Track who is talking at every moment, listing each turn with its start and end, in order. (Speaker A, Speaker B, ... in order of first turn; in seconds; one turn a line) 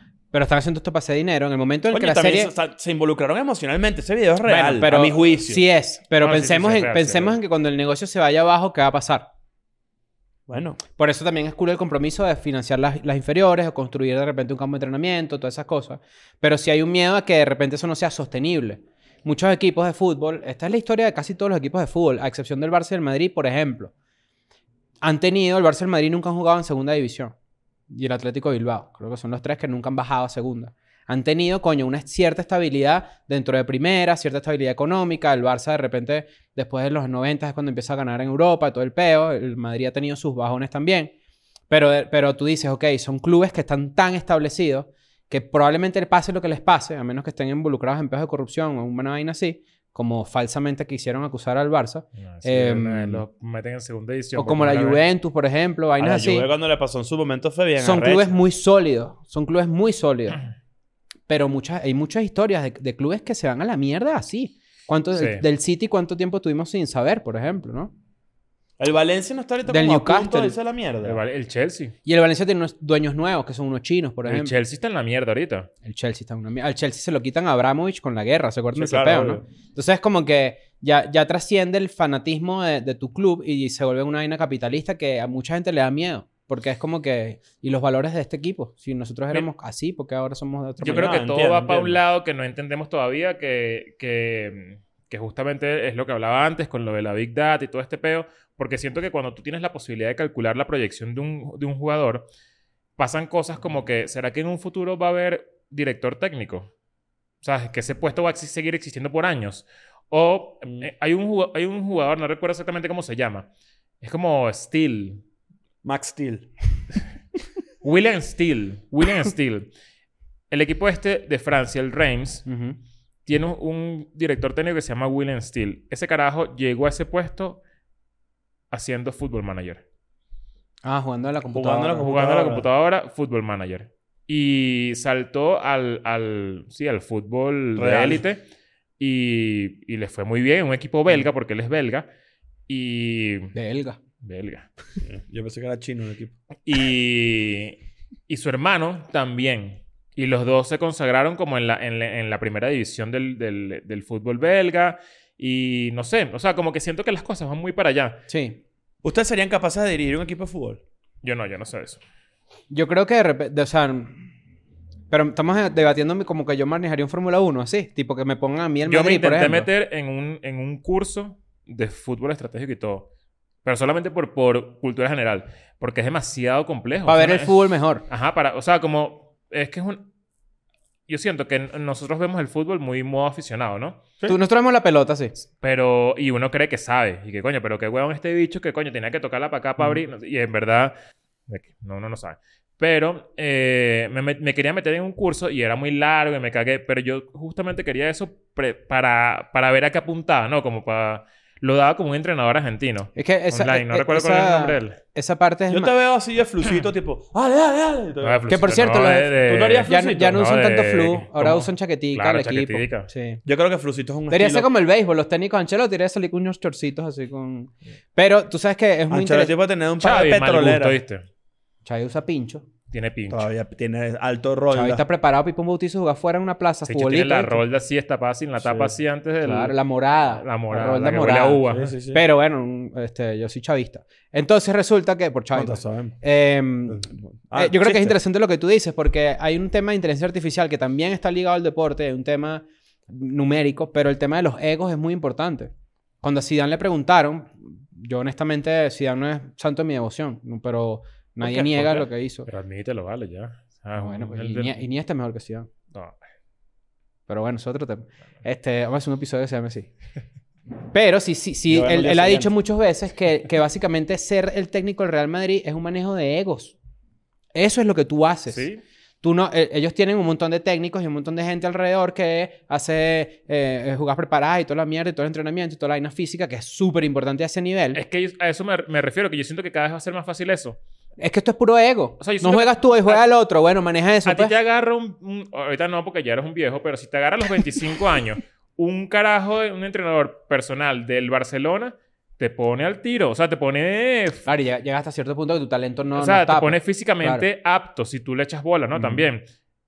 Speaker A: 0.3-2.5
Speaker B: 1.9-5.6
Speaker A: 4.4-9.3
Speaker C: 6.2-7.4
Speaker B: 10.5-10.8
Speaker A: 11.0-23.9
Speaker A: 25.0-27.3
Speaker A: 27.9-41.1
Speaker A: 41.7-53.2
Speaker C: 52.2-55.1
Speaker A: 54.4-56.5
Speaker B: 56.0-58.4
Speaker A: 57.8-60.4
Speaker A: 61.3-67.9
Speaker C: 65.2-65.4
Speaker B: 68.8-71.2
Speaker A: 69.7-70.5
Speaker C: 71.0-72.0
Speaker A: 72.0-74.5
Speaker C: 74.3-75.7
Speaker A: 75.8-91.2
Speaker B: 78.7-79.5
Speaker C: 90.8-102.3
Speaker B: 90.8-92.0
Speaker C: 103.0-106.7
Speaker C: 107.4-113.5
Speaker C: 114.0-115.2
Speaker B: 115.8-116.5
Speaker C: 117.8-119.7
Speaker C: 120.5-122.5
Speaker A: 122.5-122.8
Speaker C: 123.3-127.6
Speaker C: 128.7-129.8
Speaker A: 130.8-132.1
Speaker B: 131.5-132.7
Speaker C: 132.0-138.4
Speaker B: 137.8-138.2
Speaker C: 139.0-142.1
Speaker C: 142.7-143.6
Speaker A: 143.5-144.0
Speaker C: 144.2-144.7
Speaker B: 145.0-146.3
Speaker C: 146.7-158.3
Speaker A: 158.3-158.6
Speaker B: 159.0-160.8
Speaker C: 161.2-162.0
Speaker A: 162.7-164.3
Speaker A: 165.1-169.7
Speaker C: 168.9-173.1
Speaker C: 173.7-177.6
Speaker A: 177.1-178.0
Speaker C: 178.1-180.1
Speaker C: 181.1-184.0
Speaker A: 184.3-185.3
Speaker C: 185.4-190.9
Speaker C: 191.5-205.0
Speaker A: 203.2-205.9
Speaker B: 205.7-208.4
Speaker C: 208.2-213.1
Speaker A: 208.5-209.3
Speaker B: 209.4-210.3
Speaker A: 209.8-213.4
Speaker B: 213.5-214.7
Speaker A: 214.3-219.6
Speaker B: 219.1-221.0
Speaker C: 220.0-221.2
Speaker A: 221.8-222.7
Speaker C: 222.9-223.5
Speaker B: 223.3-225.0
Speaker A: 224.7-227.6
Speaker C: 226.9-229.8
Speaker B: 228.6-228.9
Speaker A: 229.4-252.5
Speaker C: 230.3-231.9
Speaker B: 231.7-232.2
Speaker B: 235.6-236.2
Speaker B: 236.9-238.2
Speaker C: 251.4-254.8
Speaker A: 254.0-255.7
Speaker A: 257.3-259.9
Speaker A: 260.9-266.8
Speaker B: 261.7-262.5
Speaker A: 267.5-268.7
Speaker C: 268.5-268.8
Speaker A: 269.2-278.0
Speaker C: 277.9-280.8
Speaker A: 281.2-284.5
Speaker C: 282.2-283.2
Speaker C: 284.2-294.5
Speaker A: 294.5-297.4
Speaker C: 296.1-299.4